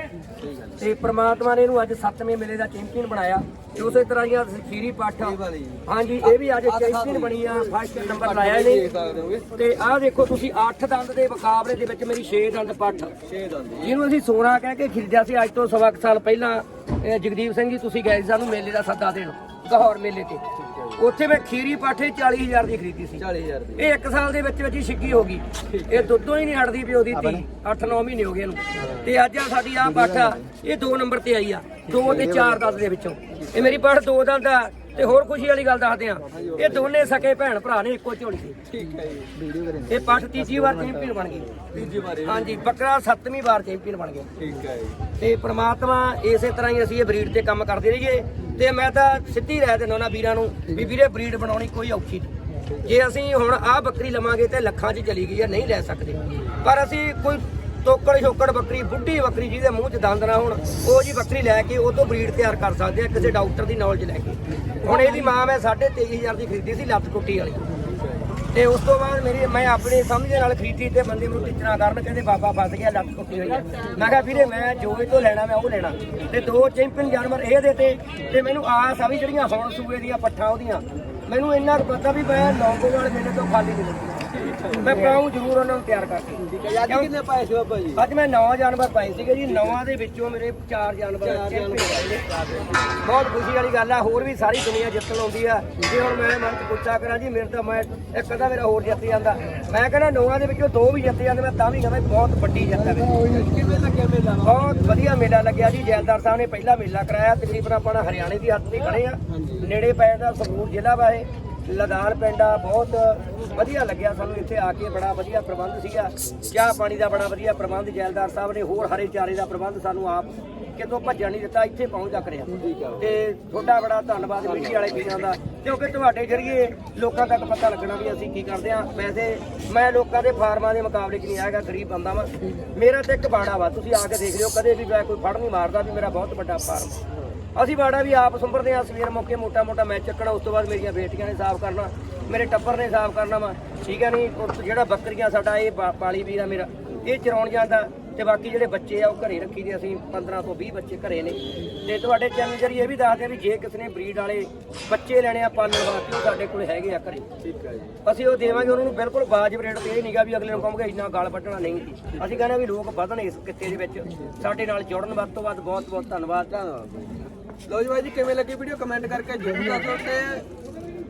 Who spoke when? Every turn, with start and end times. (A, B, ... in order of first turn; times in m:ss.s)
0:00.3-0:00.8 A
0:00.8-0:08.8 B
0:03.8-0:04.1 A
0:05.2-0:09.5 A
0:09.5-0:13.1 B
0:13.3-0:14.0 A
0:13.8-0:20.4 B
0:20.6-0:21.0 A
0:21.0-0:23.2 B
0:23.2-0:23.9 A
0:23.8-0:38.6 B
0:25.7-0:26.1 A
0:27.1-0:27.4 A
0:28.8-0:29.1 A
0:29.8-0:30.4 A
0:31.9-0:32.8 A
0:33.3-0:33.8 A
0:36.3-0:37.1 A
0:38.7-0:42.6 A
0:39.9-0:41.5 B
0:42.2-0:44.3 B
0:44.4-0:45.0 A
0:45.2-0:52.3 B
0:52.7-0:52.9 A
0:52.8-1:07.7 B
1:07.9-1:08.3 A
1:08.5-1:27.1 B
1:24.3-1:25.2 A
1:26.5-1:28.0 A
1:28.0-1:32.2 B
1:29.5-1:29.8 A
1:31.2-1:33.0 A
1:33.0-1:43.2 B
1:42.7-1:45.0 A
1:44.4-2:17.0 B
1:49.3-1:49.6 A
2:02.5-2:03.2 A
2:04.4-2:05.2 A
2:17.6-2:37.2 B
2:37.4-2:38.0 A
2:38.0-2:46.5 B
2:42.1-2:42.4 A
2:46.5-2:50.4 A